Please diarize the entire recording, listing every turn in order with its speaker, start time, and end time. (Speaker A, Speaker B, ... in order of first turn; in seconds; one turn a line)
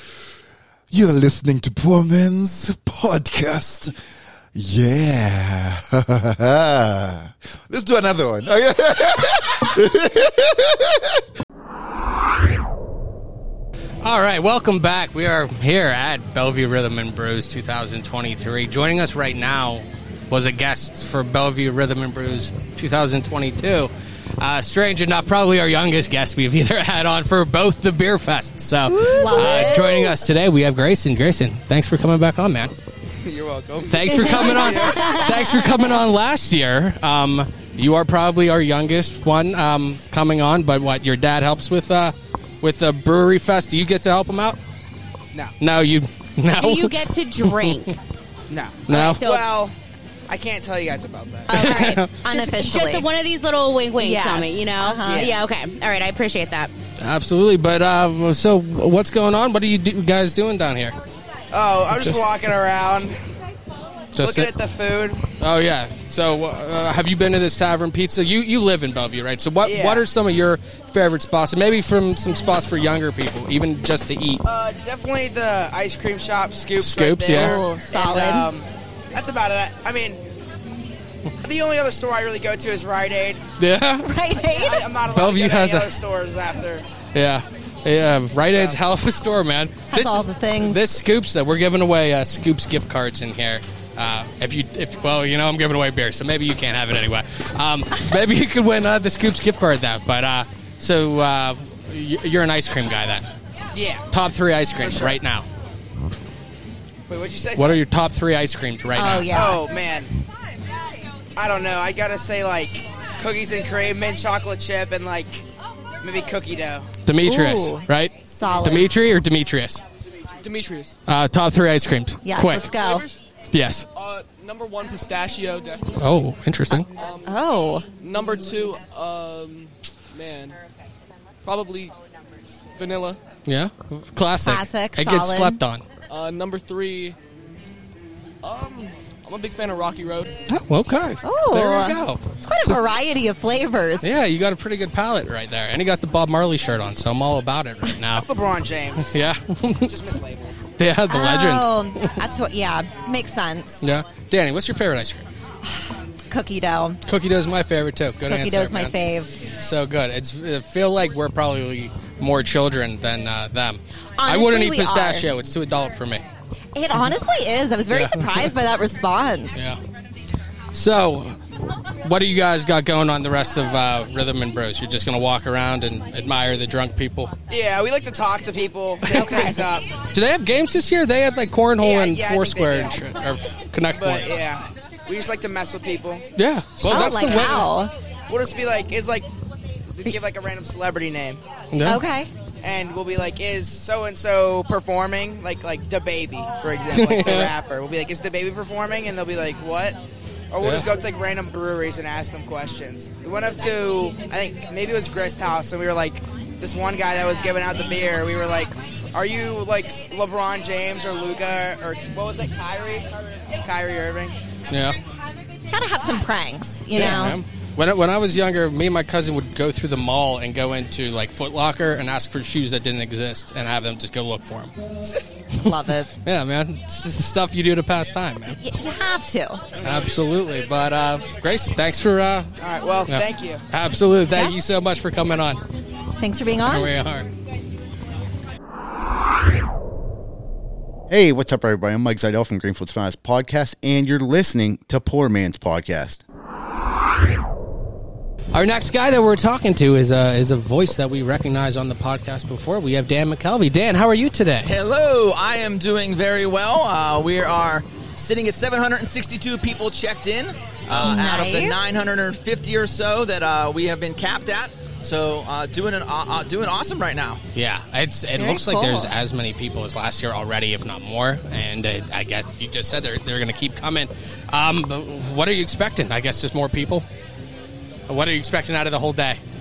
Speaker A: 0.9-3.9
Speaker A: 4.5-11.0
Speaker B: 14.0-32.7
Speaker C: 28.9-30.2
Speaker D: 29.1-29.7
Speaker E: 33.2-35.3
Speaker B: 33.9-44.6
Speaker D: 34.1-35.3
Speaker B: 45.6-47.9
Speaker D: 46.5-48.0
Speaker E: 48.5-49.7
Speaker B: 48.9-49.2
Speaker D: 48.9-49.4
Speaker E: 50.3-51.5
Speaker D: 51.5-56.7
Speaker B: 51.5-52.1
Speaker C: 52.1-53.1
Speaker C: 54.0-55.3
Speaker E: 55.0-55.4
Speaker B: 57.0-61.0
Speaker E: 61.5-63.2
Speaker B: 61.9-62.2
Speaker B: 64.1-64.5
Speaker E: 64.2-65.2
Speaker B: 65.4-74.4
Speaker E: 69.6-70.0
Speaker E: 74.4-80.2
Speaker B: 76.8-77.6
Speaker C: 77.3-78.5
Speaker E: 81.4-83.4
Speaker B: 83.6-84.1
Speaker C: 84.0-84.9
Speaker E: 84.4-86.8
Speaker B: 85.1-85.9
Speaker B: 87.1-103.3
Speaker E: 88.5-88.8
Speaker C: 89.9-91.0
Speaker E: 103.7-104.1
Speaker B: 104.1-105.5
Speaker E: 104.8-105.2
Speaker E: 107.1-107.8
Speaker B: 107.5-109.3
Speaker C: 108.9-109.6
Speaker E: 109.3-110.1
Speaker E: 111.3-115.4
Speaker E: 116.0-116.9
Speaker B: 117.0-119.8
Speaker C: 117.2-118.9
Speaker F: 120.4-121.0
Speaker B: 121.1-122.8
Speaker C: 122.2-123.0
Speaker F: 122.5-123.2
Speaker B: 123.5-123.9
Speaker F: 123.9-126.3
Speaker B: 126.0-126.9
Speaker C: 126.7-127.8
Speaker F: 126.9-127.3
Speaker F: 128.0-130.6
Speaker F: 131.4-131.9
Speaker F: 132.8-133.2
Speaker B: 133.4-135.8
Speaker C: 134.4-135.6
Speaker F: 136.1-137.2
Speaker F: 138.4-140.4
Speaker B: 140.5-142.8
Speaker C: 141.2-144.2
Speaker B: 144.0-148.3
Speaker E: 148.1-149.1
Speaker B: 149.0-149.9
Speaker E: 149.8-150.5
Speaker B: 150.8-152.1
Speaker C: 151.1-153.8
Speaker B: 153.8-155.2
Speaker C: 155.6-157.0
Speaker B: 157.1-166.2
Speaker C: 158.2-159.3
Speaker C: 164.2-165.3
Speaker C: 166.7-169.7
Speaker B: 167.9-168.5
Speaker B: 169.5-169.8
Speaker B: 170.7-171.4
Speaker B: 171.9-177.3
Speaker E: 177.5-179.9
Speaker B: 179.1-179.5
Speaker C: 179.2-179.6
Speaker B: 180.1-184.3
Speaker E: 181.8-183.1
Speaker E: 183.9-186.2
Speaker B: 186.3-187.7
Speaker E: 186.8-187.6
Speaker C: 186.8-187.9
Speaker E: 188.3-189.3
Speaker E: 189.9-191.4
Speaker B: 191.7-192.0
Speaker C: 191.8-192.3
Speaker E: 192.6-200.0
Speaker B: 196.9-197.5
Speaker E: 200.5-214.3
Speaker B: 200.6-200.9
Speaker B: 214.7-215.0
Speaker C: 215.7-217.4
Speaker B: 216.9-224.7
Speaker C: 225.6-226.1
Speaker B: 226.2-228.6
Speaker C: 228.5-229.6
Speaker B: 229.8-232.5
Speaker E: 232.6-233.6
Speaker B: 233.1-235.6
Speaker C: 234.3-234.6
Speaker C: 236.2-236.9
Speaker B: 236.7-237.3
Speaker G: 241.1-246.2
Speaker B: 248.5-254.7
Speaker H: 254.6-267.4
Speaker B: 260.9-261.2
Speaker C: 260.9-261.8
Speaker B: 267.5-277.1
Speaker C: 268.4-269.1
Speaker B: 278.1-279.4